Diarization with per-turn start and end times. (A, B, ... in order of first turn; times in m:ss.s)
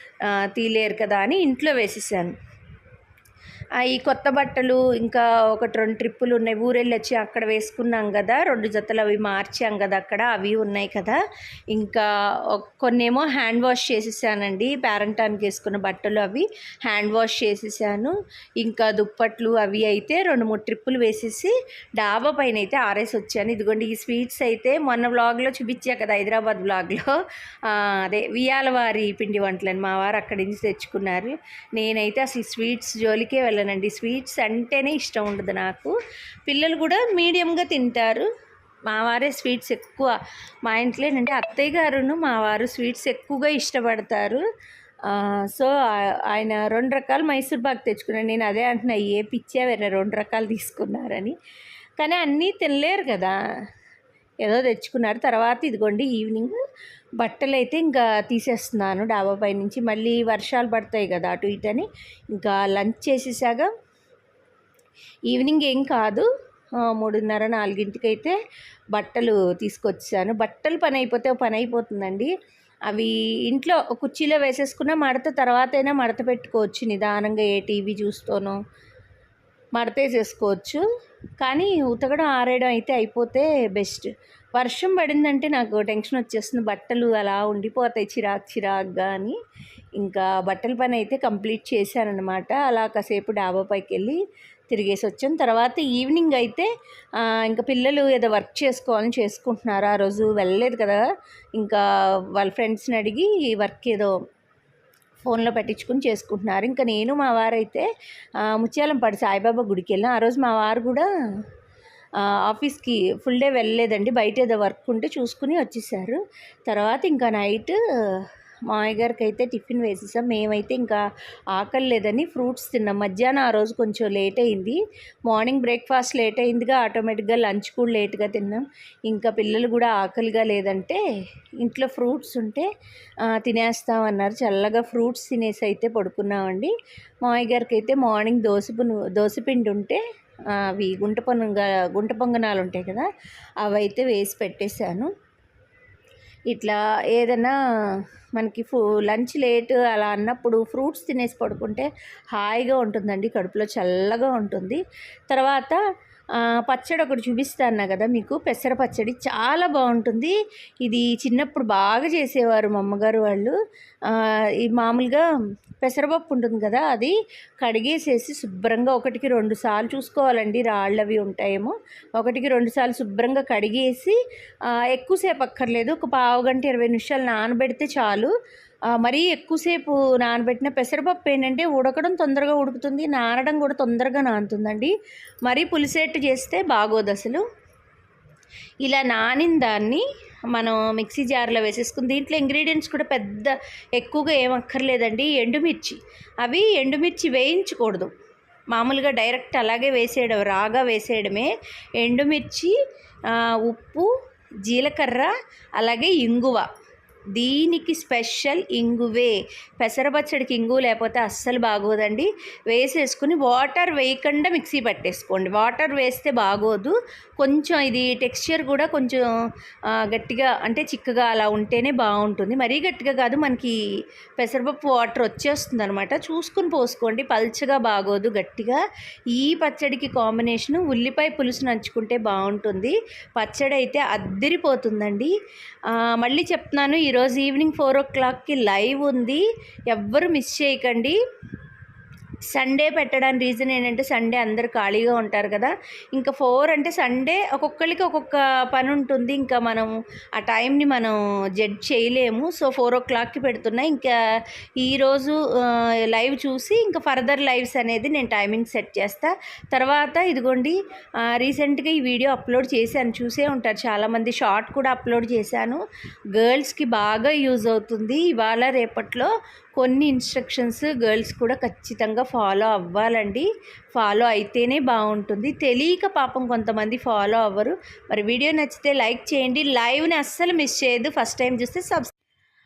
0:00.2-0:02.3 A
0:03.8-0:11.2 A
0:11.7-0:38.3 A
0:38.8-0:44.4 A
0:45.0-0:51.4 A
0:52.0-0:53.4 A
0:54.4-0:56.6 A
0:57.2-1:03.7 A
1:05.3-1:08.4 A
1:08.9-1:12.3 A
1:12.9-1:18.6 A
1:19.8-1:20.8 A
1:21.4-1:29.4 A
1:30.0-1:41.0 A
1:41.6-1:41.8 A
1:42.4-1:44.2 A
1:45.2-1:47.9 A
1:48.4-1:51.1 A
1:52.2-2:11.0 A
2:11.6-2:12.7 A
2:13.2-2:16.7 A
2:17.2-2:23.1 A
2:23.6-2:25.1 A
2:26.5-2:27.6 A
2:28.4-2:35.8 A
2:36.3-2:45.2 A
2:45.8-2:54.2 A
2:54.7-2:58.3 A
2:59.0-3:04.9 A
3:05.4-3:07.4 A
3:08.8-3:18.1 A
3:18.7-3:22.8 A
3:23.3-3:24.1 A
3:24.6-3:26.6 A
3:27.3-3:39.2 A
3:39.9-3:43.7 A
3:44.4-3:48.8 A
3:49.3-3:55.3 A
3:55.8-4:01.2 A
4:02.5-4:14.2 A
4:14.8-4:25.8 A
4:26.4-4:42.1 A